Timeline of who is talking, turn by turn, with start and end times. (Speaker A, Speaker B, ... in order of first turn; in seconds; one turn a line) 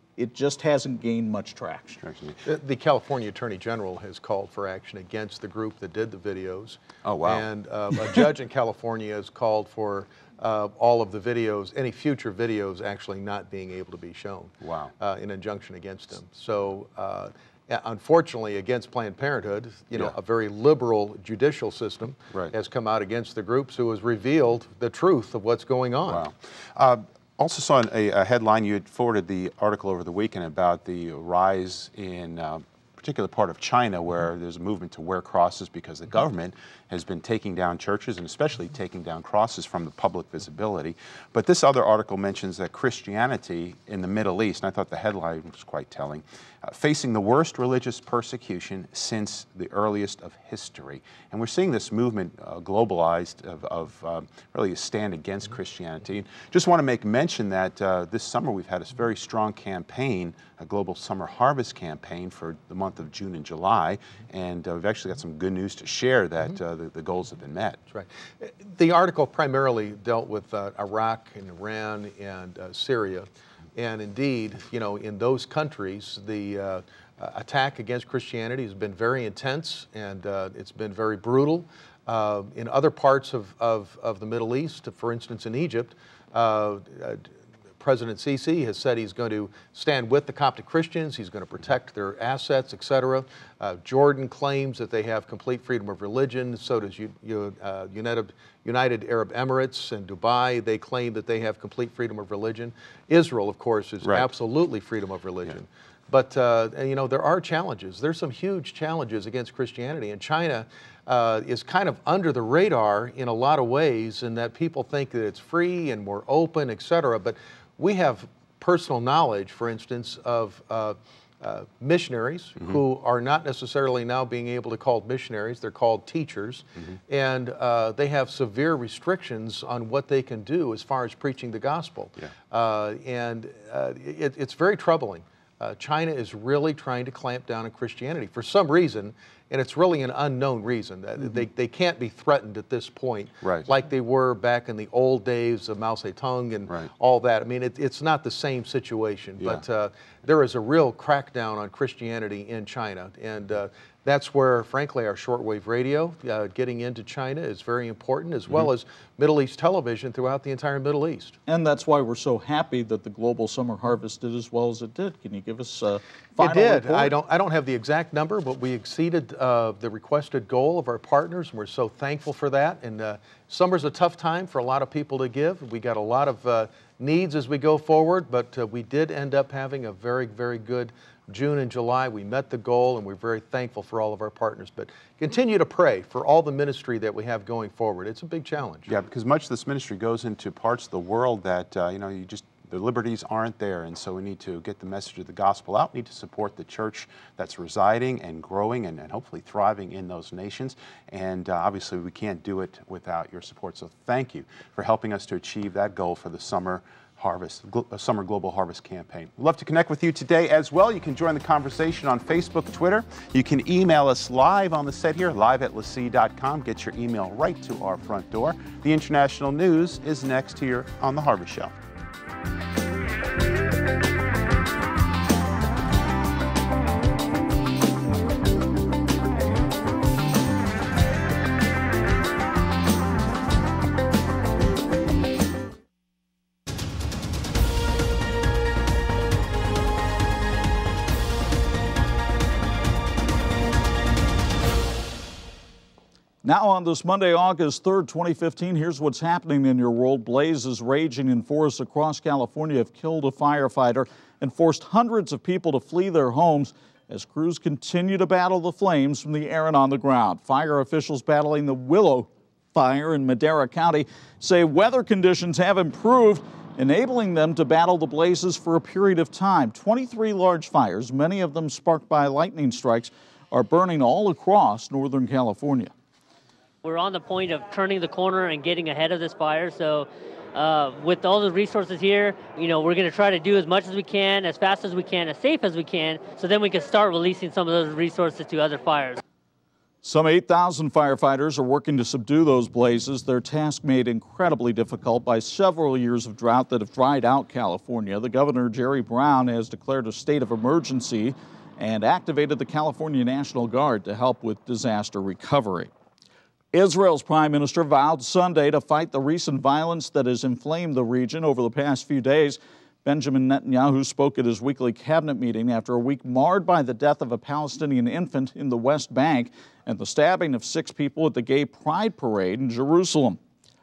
Speaker A: 0.2-2.0
Speaker B: 2.0-2.4
Speaker C: 2.5-26.3
Speaker B: 7.0-7.5
Speaker B: 14.6-14.9
Speaker B: 26.1-67.8
Speaker C: 67.9-161.4
Speaker B: 104.0-104.3
Speaker B: 143.4-143.7
Speaker A: 161.5-167.1
Speaker C: 166.4-188.9
Speaker B: 188.9-221.7
Speaker A: 246.4-275.9
Speaker D: 276.8-289.2
Speaker A: 290.0-305.9
Speaker A: 306.7-323.4